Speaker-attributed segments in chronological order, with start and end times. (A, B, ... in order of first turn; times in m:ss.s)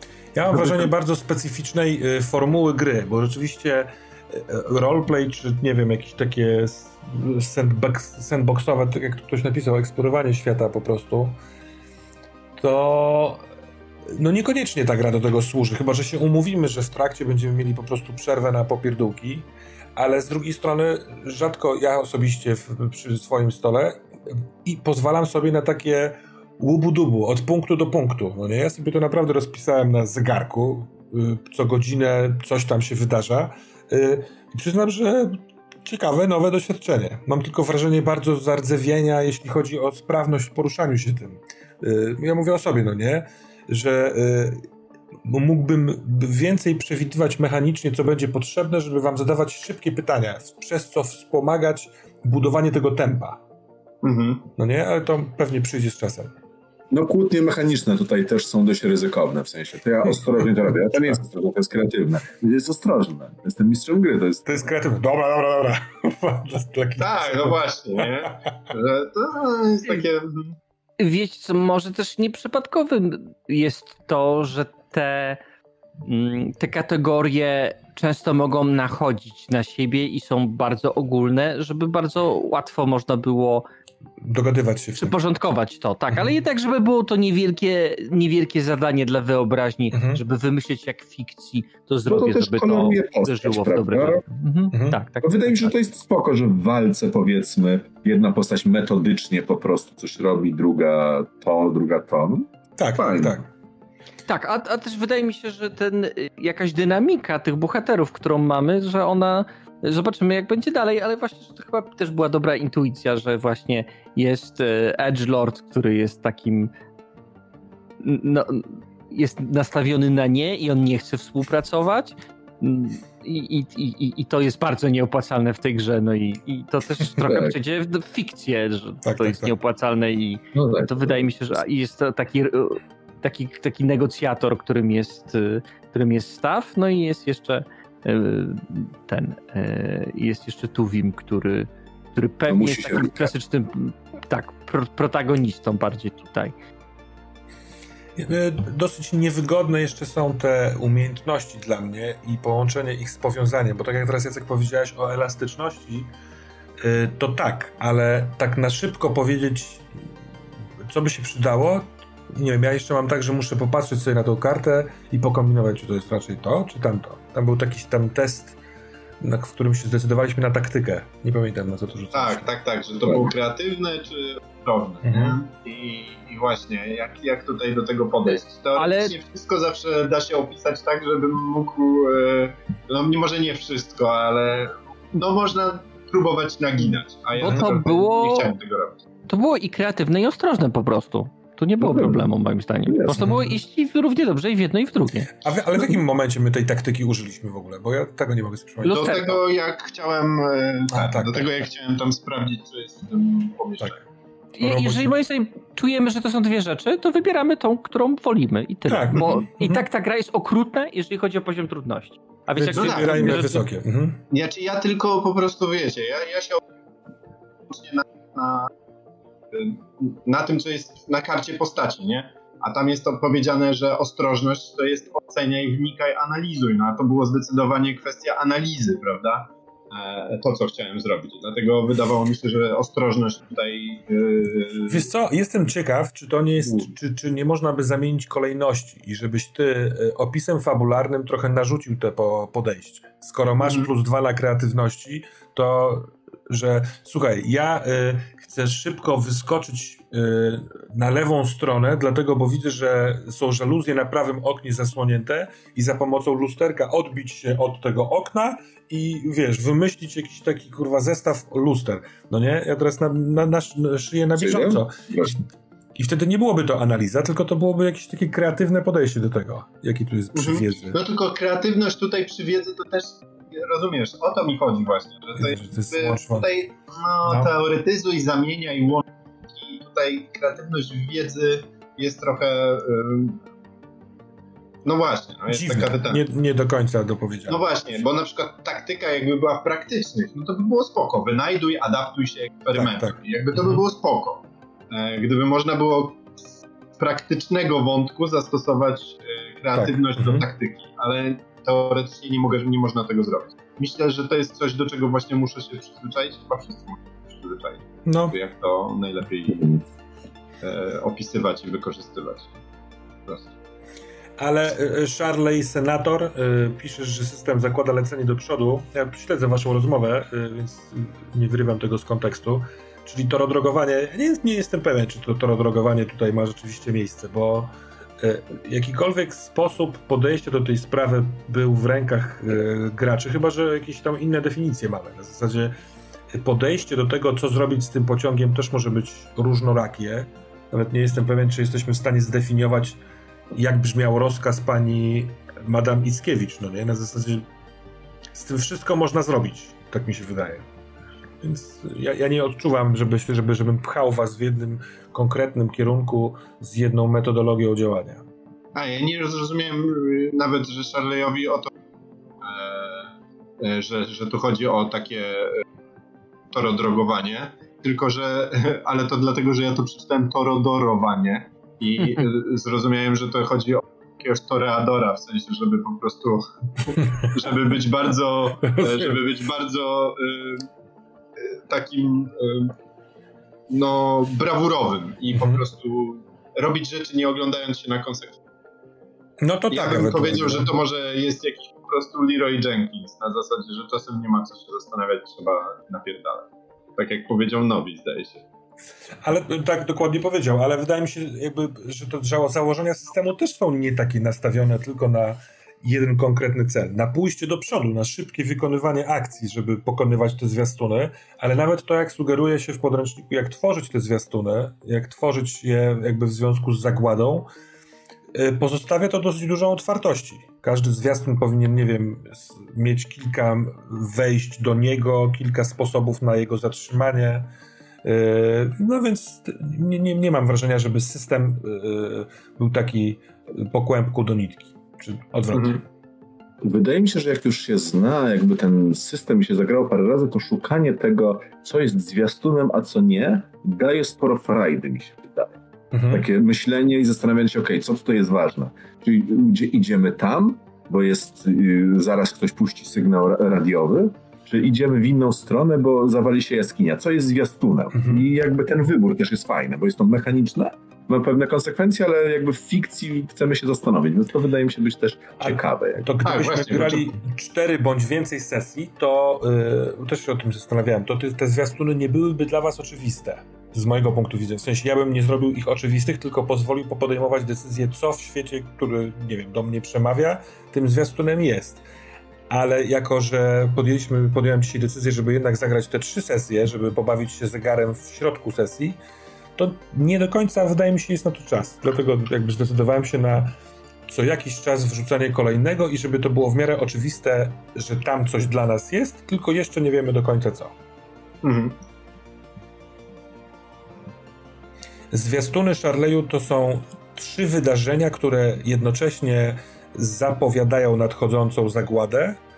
0:00.4-0:11.4 A
0:12.6-0:13.4 A
0:14.1-0:44.6 A
0:45.2-0:53.4 A
0:54.0-0:54.5 B
0:54.6-0:56.3 A
0:56.9-1:04.6 C
1:04.5-1:08.3 A
1:07.0-1:10.6 B
1:11.0-1:15.4 D
1:16.0-1:23.7 D
1:24.2-1:25.2 A
1:25.0-1:35.7 D
1:29.9-1:30.2 A
1:32.1-1:34.2 C
1:34.7-1:35.0 A
1:35.2-1:43.4 C
1:42.8-1:43.5 A
1:44.3-1:56.7 D
1:58.0-2:26.5 D
2:07.2-2:07.6 C
2:09.0-2:09.5 A
2:10.5-2:11.3 C
2:22.5-2:23.3 C
2:28.2-2:36.1 A
2:36.8-2:39.9 A
2:40.9-2:48.6 A
2:49.2-2:52.5 A
2:52.1-3:09.0 B
2:55.0-2:55.4 A
2:58.8-2:59.2 D
3:07.4-3:08.5 D
3:09.3-3:15.4 D
3:11.8-3:12.3 C
3:12.9-3:13.3 C
3:13.2-3:13.6 A
3:15.3-3:19.4 A
3:18.8-3:19.4 D
3:18.9-3:24.0 B
3:20.9-3:21.7 A
3:24.6-3:33.7 D
3:24.6-3:25.1 A
3:28.9-3:29.8 A
3:32.6-3:34.2 A
3:32.8-3:33.5 B
3:34.3-3:36.6 B
3:37.7-3:38.7 B
3:39.5-3:55.1 B
3:54.9-4:25.4 A
4:03.6-4:03.9 B
4:24.4-4:25.4 C
4:26.0-4:31.0 A
4:30.4-4:43.4 B
4:35.4-4:36.6 A
4:37.2-4:37.5 A
4:44.8-4:46.2 B
4:45.5-4:48.0 A
4:47.5-4:56.3 B
4:52.7-4:53.8 A
4:57.0-5:09.8 B
4:59.7-5:00.5 A
5:08.0-5:08.4 A
5:10.6-5:12.6 B
5:13.3-5:13.5 B
5:14.4-5:35.8 A
5:36.3-5:43.0 A
5:43.5-5:47.5 A
5:48.3-5:50.6 A
5:51.4-5:58.2 A
5:58.8-6:01.7 B
6:02.4-6:05.6 B
6:06.5-6:20.7 B
6:18.7-6:19.2 A
6:21.4-6:22.7 B
6:23.7-6:28.4 B
6:25.3-6:25.6 A
6:29.4-6:30.7 A
6:29.7-6:38.4 B
6:39.2-6:57.5 A
6:58.3-7:07.5 A
7:08.0-7:15.8 A
7:15.5-7:15.8 B
7:16.6-7:25.5 C
7:25.9-7:26.3 A
7:26.1-7:46.1 C
7:37.9-7:38.3 A
7:45.4-8:01.8 A
7:46.2-7:47.1 B
8:02.5-8:09.0 A
8:09.6-8:13.5 A
8:14.1-8:20.7 A
8:21.4-8:21.8 B
8:25.1-8:32.4 A